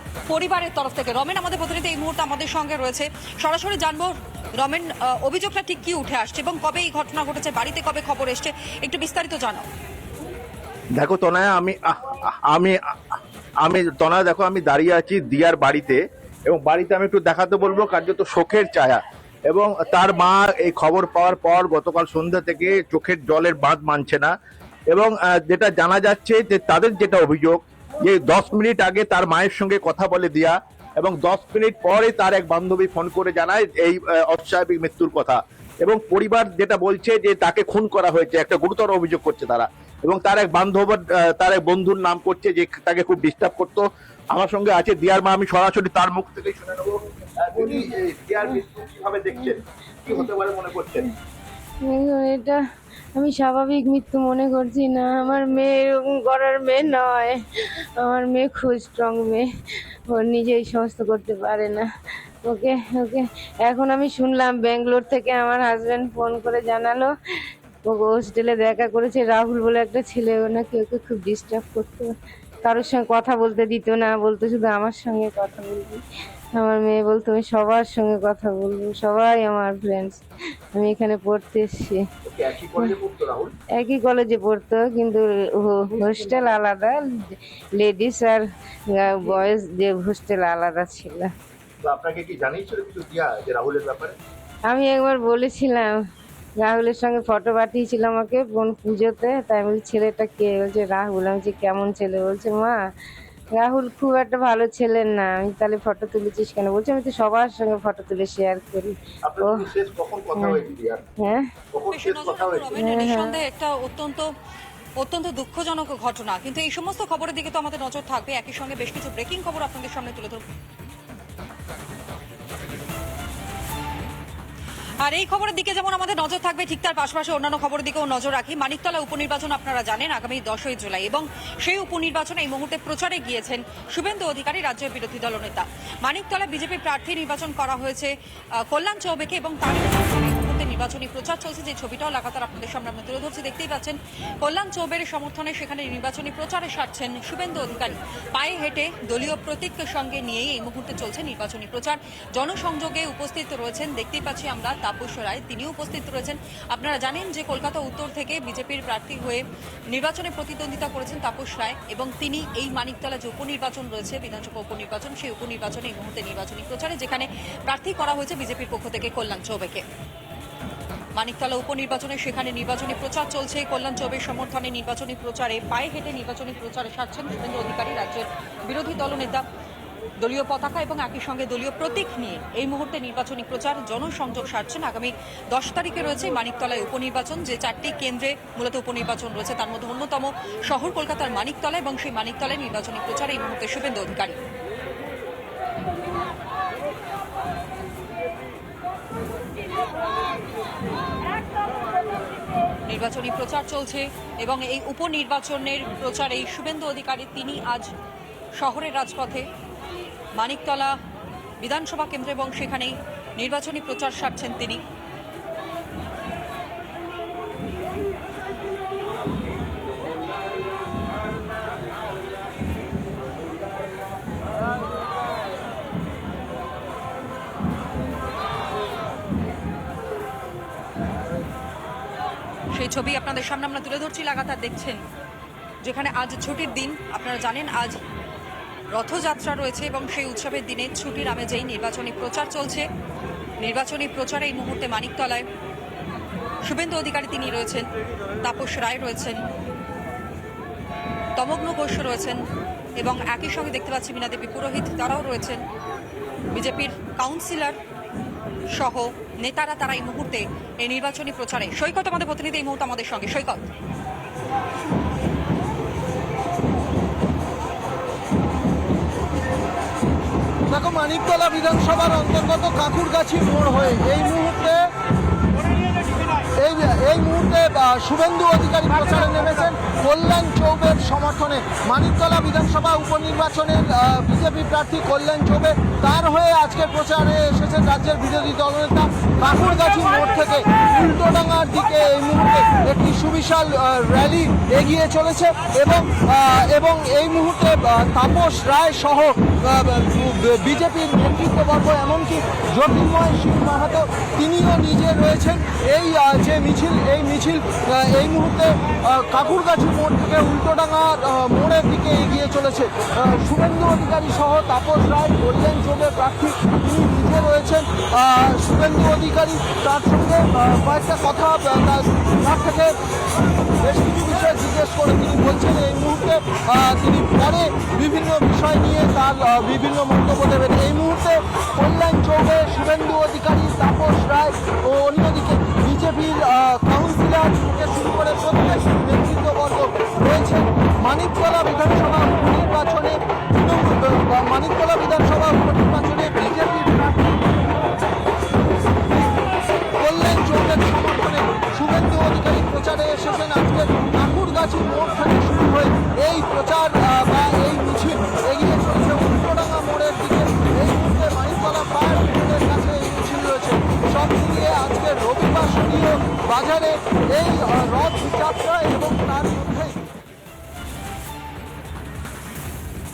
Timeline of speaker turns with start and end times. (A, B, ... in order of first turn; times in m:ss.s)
0:00.3-0:09.7 A
0:11.0-0:12.8 B
0:13.6-0:24.3 B
0:24.9-0:51.1 B
0:51.8-0:52.6 C
0:53.1-0:57.4 C
0:58.0-0:59.5 C
1:00.1-1:01.9 C
1:02.4-1:07.1 C
1:07.8-1:12.1 C
1:12.6-1:16.0 C
1:16.6-1:20.2 C
1:20.7-1:22.0 C
1:22.2-1:23.5 B
1:23.8-1:31.3 C
1:31.8-1:34.1 B
1:34.7-1:35.9 C
1:36.6-1:42.8 C
1:43.6-1:49.7 C
1:49.2-1:51.0 B
1:50.4-1:50.6 C
1:51.2-1:51.5 C
1:51.7-1:52.7 B
1:51.9-1:54.3 A
1:52.7-1:53.4 C
1:55.0-2:00.4 A
2:05.0-2:18.1 A
2:18.7-2:49.8 A
2:51.1-2:59.4 A
3:00.2-3:14.4 A
3:22.9-3:27.9 A
3:28.6-3:29.4 A
3:30.4-3:31.0 A
3:31.6-3:34.8 A
3:52.7-3:55.0 A
3:55.8-3:58.0 A
3:58.9-4:02.8 A
4:03.6-4:05.4 A
4:06.6-4:07.9 A
4:08.4-4:09.4 A
4:11.4-4:12.4 A
4:13.0-4:15.6 A
4:16.5-4:17.8 A
4:18.7-4:23.7 A
4:30.7-4:34.8 D
4:36.5-5:23.0 D
5:23.8-5:47.4 D
5:50.0-6:10.0 D